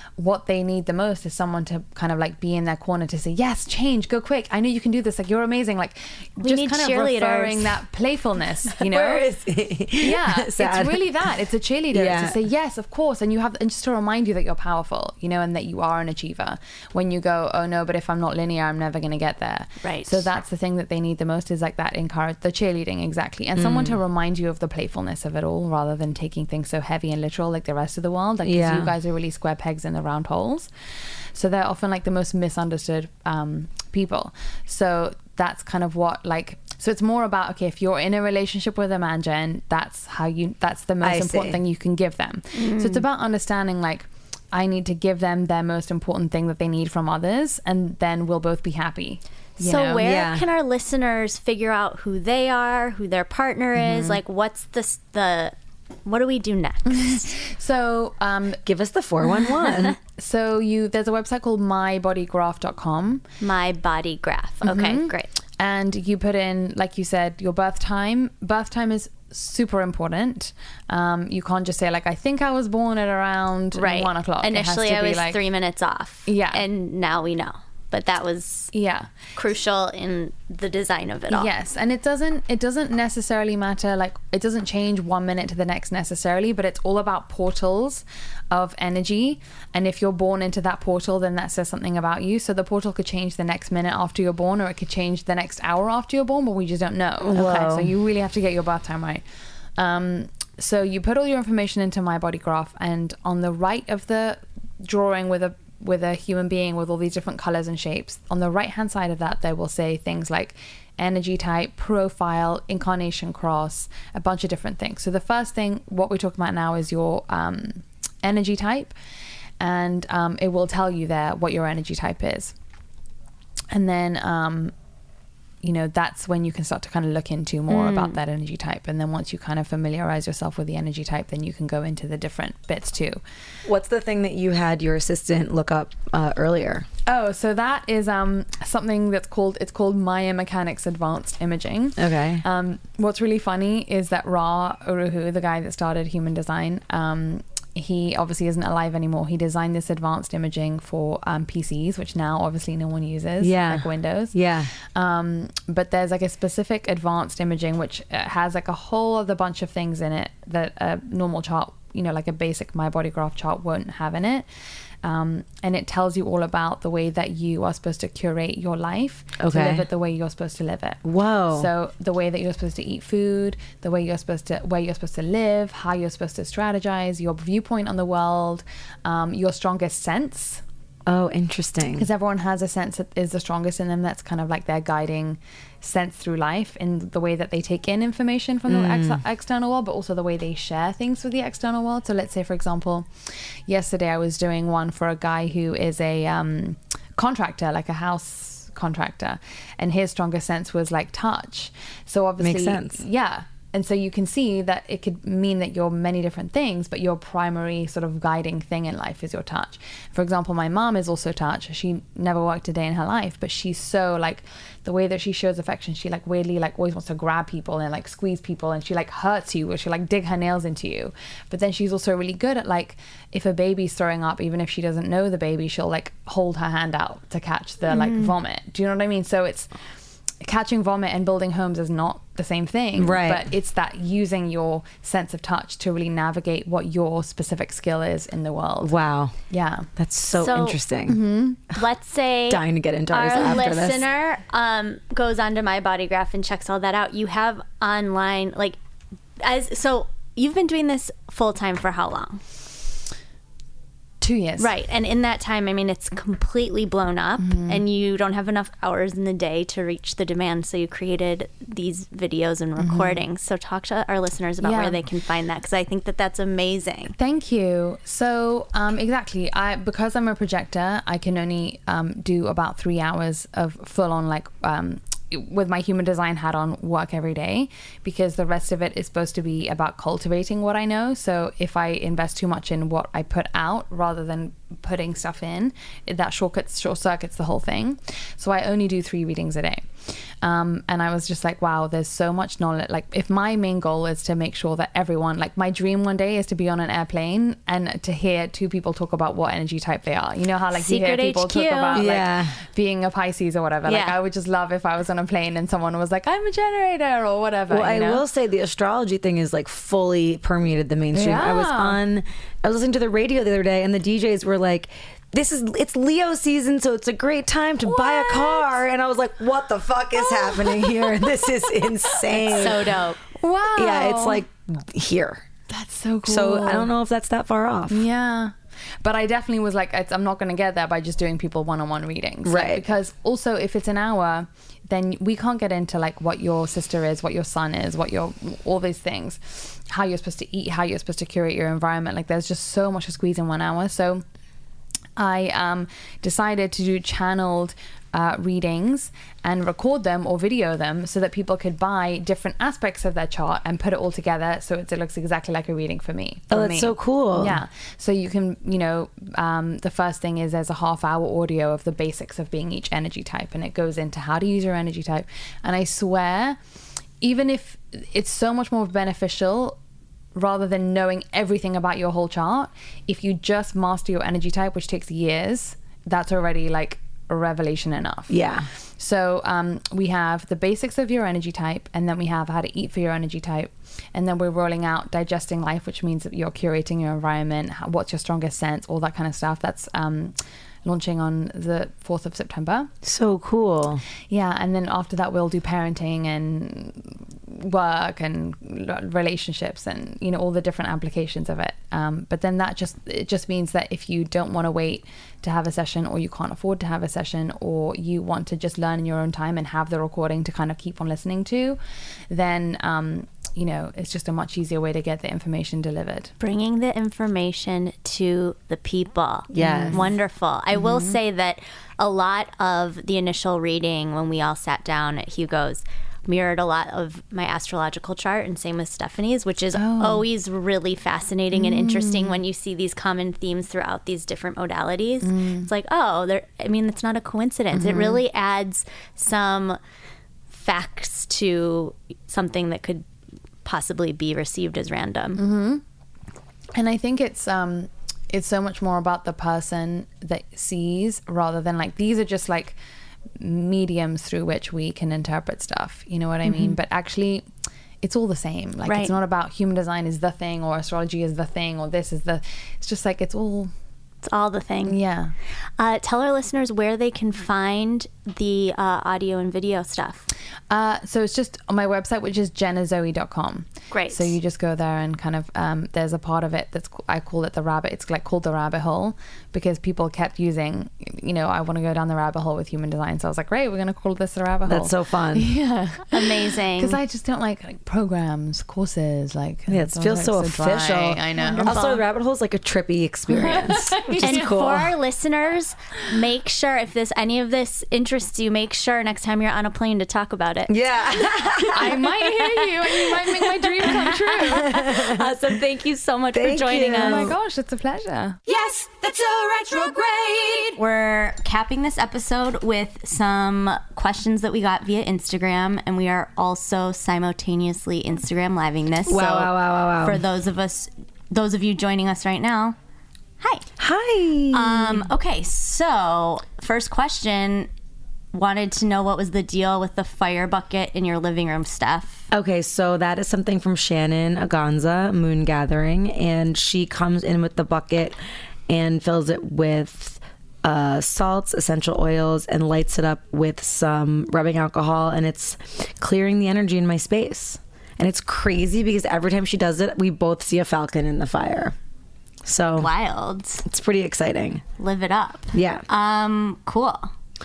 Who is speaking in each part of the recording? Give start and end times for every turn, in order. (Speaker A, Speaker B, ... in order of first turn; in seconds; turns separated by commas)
Speaker A: 0.2-9.3, Speaker B: 6.4-7.7, Speaker C: 8.8-11.3, Speaker A: 10.0-50.1, Speaker C: 11.9-12.4, Speaker B: 19.8-20.2, Speaker C: 23.6-23.9, Speaker C: 28.4-28.9, Speaker C: 41.0-41.6, Speaker B: 42.5-43.0, Speaker B: 49.6-57.4, Speaker C: 50.0-50.5, Speaker A: 53.8-54.2, Speaker A: 56.9-58.6, Speaker C: 58.6-60.0, Speaker A: 60.1-63.2, Speaker B: 63.4-65.3, Speaker A: 64.6-75.4, Speaker B: 73.7-78.7, Speaker A: 76.3-76.7, Speaker A: 78.7-79.1, Speaker B: 79.3-81.5, Speaker A: 81.3-99.2, Speaker C: 97.2-97.9, Speaker A: 99.8-118.9, Speaker A: 119.6-122.5, Speaker A: 123.7-124.7, Speaker A: 125.6-133.2, Speaker B: 127.7-128.2, Speaker C: 133.7-136.9, Speaker A: 137.1-164.5, Speaker C: 142.0-142.4, Speaker C: 153.4-154.7, Speaker A: 165.0-171.0, Speaker C: 169.4-169.9, Speaker C: 171.1-171.7, Speaker A: 171.5-180.6, Speaker C: 181.1-182.1, Speaker A: 181.9-229.8, Speaker C: 188.7-189.2, Speaker C: 202.4-203.0, Speaker B: 227.9-228.3, Speaker A: 230.4-238.9, Speaker C: 233.0-233.5, Speaker C: 238.8-239.3, Speaker A: 239.5-239.9, Speaker C: 240.0-241.2, Speaker B: 240.3-240.8, Speaker A: 241.1-241.6, Speaker B: 241.7-248.8, Speaker C: 242.5-244.0, Speaker B: 249.4-252.4, Speaker A: 254.2-254.7, Speaker B: 254.6-267.1, Speaker A: 257.4-257.8, Speaker A: 262.8-263.2, Speaker A: 264.6-265.0, Speaker A: 267.2-308.2, Speaker B: 300.8-302.0, Speaker C: 301.9-302.6, Speaker B: 303.9-304.1, Speaker C: 307.7-322.9, Speaker A: 311.1-312.0, Speaker A: 317.9-318.8, Speaker A: 320.3-321.5, Speaker A: 322.1-324.4, Speaker B: 322.5-323.2, Speaker C: 323.8-325.5, Speaker A: 325.7-326.9, Speaker C: 326.3-328.1, Speaker A: 327.9-344.2, Speaker C: 332.4-332.8, Speaker A: 345.2-366.6, Speaker C: 356.5-357.6, Speaker A: 367.2-369.8, Speaker A: 370.4-392.9, Speaker C: 378.3-378.7, Speaker C: 393.0-394.0, Speaker A: 394.3-411.8, Speaker A: 412.3-416.3, Speaker B: 416.4-439.8, Speaker C: 419.5-420.0, Speaker A: 419.6-420.0, Speaker A: 420.7-421.2, Speaker A: 429.8-430.3, Speaker A: 431.5-432.4, Speaker A: 435.2-435.7, Speaker A: 437.7-438.2, Speaker B: 440.5-443.1, Speaker B: 443.6-445.4, Speaker A: 445.4-445.8, Speaker A: 446.8-452.8, Speaker A: 453.4-457.4, Speaker B: 456.4-456.8, Speaker A: 458.0-463.7, Speaker B: 458.8-459.1, Speaker B: 464.2-465.0, Speaker A: 464.9-465.3, Speaker B: 465.8-470.3, Speaker A: 470.7-491.7, Speaker B: 473.9-474.4, Speaker C: 484.7-485.5, Speaker B: 486.1-487.0, Speaker C: 489.7-494.9, Speaker B: 491.4-492.0, Speaker A: 493.3-494.5, Speaker B: 494.2-502.3, Speaker C: 500.7-502.1, Speaker A: 501.7-504.8, Speaker B: 502.9-507.3, Speaker C: 504.5-505.3, Speaker C: 506.3-507.4, Speaker A: 507.0-508.4, Speaker D: 508.5-510.8, Speaker B: 510.8-522.8, Speaker C: 519.1-520.2, Speaker B: 523.4-523.7, Speaker C: 523.8-525.1, Speaker B: 524.5-527.7, Speaker B: 528.3-532.3, Speaker C: 532.3-538.1, Speaker C: 538.7-551.8, Speaker C: 552.5-552.9, Speaker B: 552.8-553.6, Speaker C: 553.6-554.6, Speaker B: 554.8-557.1, Speaker C: 555.5-555.8